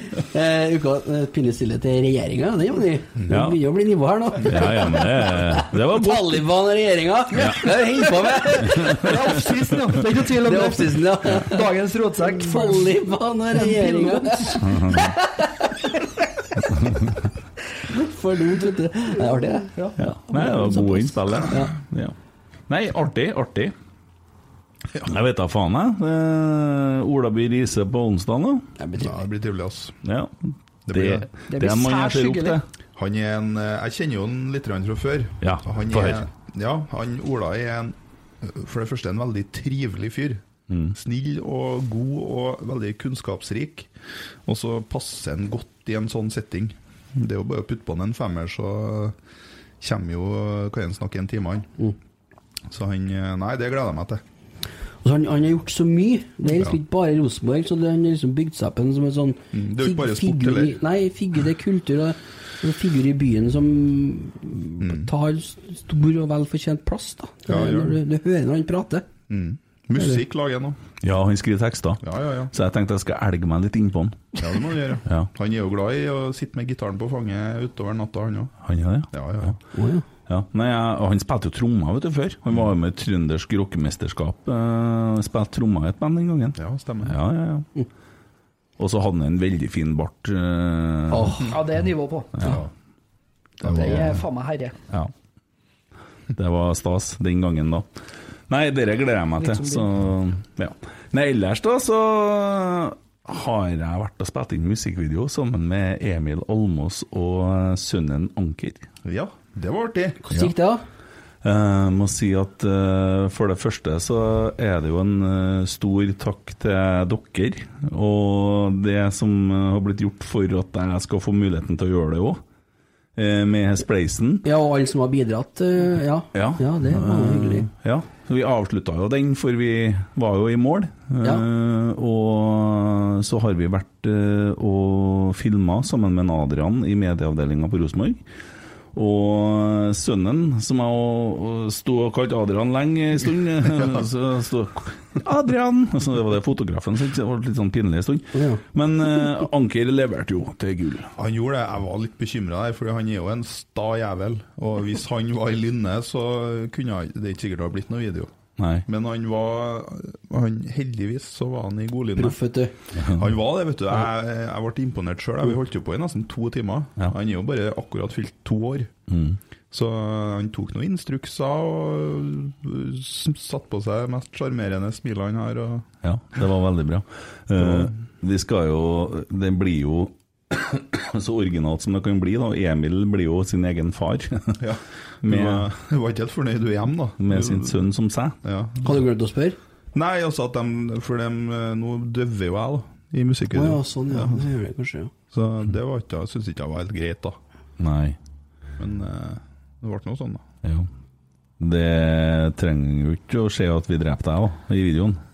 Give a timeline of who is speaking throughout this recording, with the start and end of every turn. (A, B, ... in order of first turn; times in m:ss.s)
0:00.3-0:09.4 A
0:03.3-0:03.6 B
0:04.4-0:06.4 B
0:07.3-0:07.6 B
0:08.7-0:09.1 B
0:08.7-0:13.0 C
0:10.3-0:11.7 A
0:12.2-0:15.9 A
0:13.5-0:14.6 C
0:14.6-0:15.1 B
0:17.8-0:21.7 A
0:20.0-0:22.1 B
0:22.7-0:23.7 B
0:25.0-0:28.6 B
0:28.8-0:29.2 A
0:29.0-0:30.0 D
0:30.0-0:30.3 B
0:30.9-0:31.2 D
0:30.9-0:32.6 B
0:31.5-0:32.6 C
0:33.0-0:40.4 D
0:35.4-0:36.2 B
0:40.7-0:41.0 B
0:40.9-0:43.9 D
0:44.4-0:49.1 D
0:49.8-0:51.7 D
0:52.7-0:54.2 D
0:55.0-1:09.1 A
0:59.5-1:00.8 D
1:04.8-1:05.1 D
1:07.5-1:08.0 D
1:09.3-1:10.8 D
1:11.0-1:14.3 B
1:12.0-1:12.5 D
1:14.4-1:18.5 D
1:18.6-1:19.5 B
1:19.1-1:19.6 D
1:19.7-1:20.0 A
1:20.3-1:27.7 B
1:26.6-1:27.2 D
1:28.8-1:31.4 B
1:31.1-1:31.5 A
1:31.5-1:32.3 C
1:32.4-1:32.7 D
1:33.6-1:34.8 C
1:33.6-1:34.2 D
1:36.3-1:37.9 B
1:38.5-1:48.8 B
1:39.4-1:39.9 C
1:49.0-1:50.2 D
1:50.2-1:50.8 A
1:51.4-2:02.4 B
2:03.2-2:04.4 B
2:04.4-2:07.7 A
2:06.3-2:18.2 B
2:18.9-2:31.1 B
2:28.3-2:28.6 A
2:31.2-2:38.3 D
2:38.6-2:38.8 B
2:38.8-2:42.4 D
2:42.2-2:42.7 A
2:43.0-2:43.2 B
2:43.0-2:48.9 D
2:49.1-2:49.4 B
2:49.7-2:55.8 D
2:56.0-3:04.6 B
2:57.6-2:57.9 D
3:04.6-3:07.8 D
3:05.2-3:05.6 B
3:07.2-3:08.4 B
3:08.4-3:08.9 D
3:08.8-3:09.6 A
3:09.9-3:14.4 D
3:13.5-3:15.1 A
3:15.3-3:17.4 D
3:17.8-3:18.2 B
3:18.8-3:20.4 D
3:21.6-3:25.2 B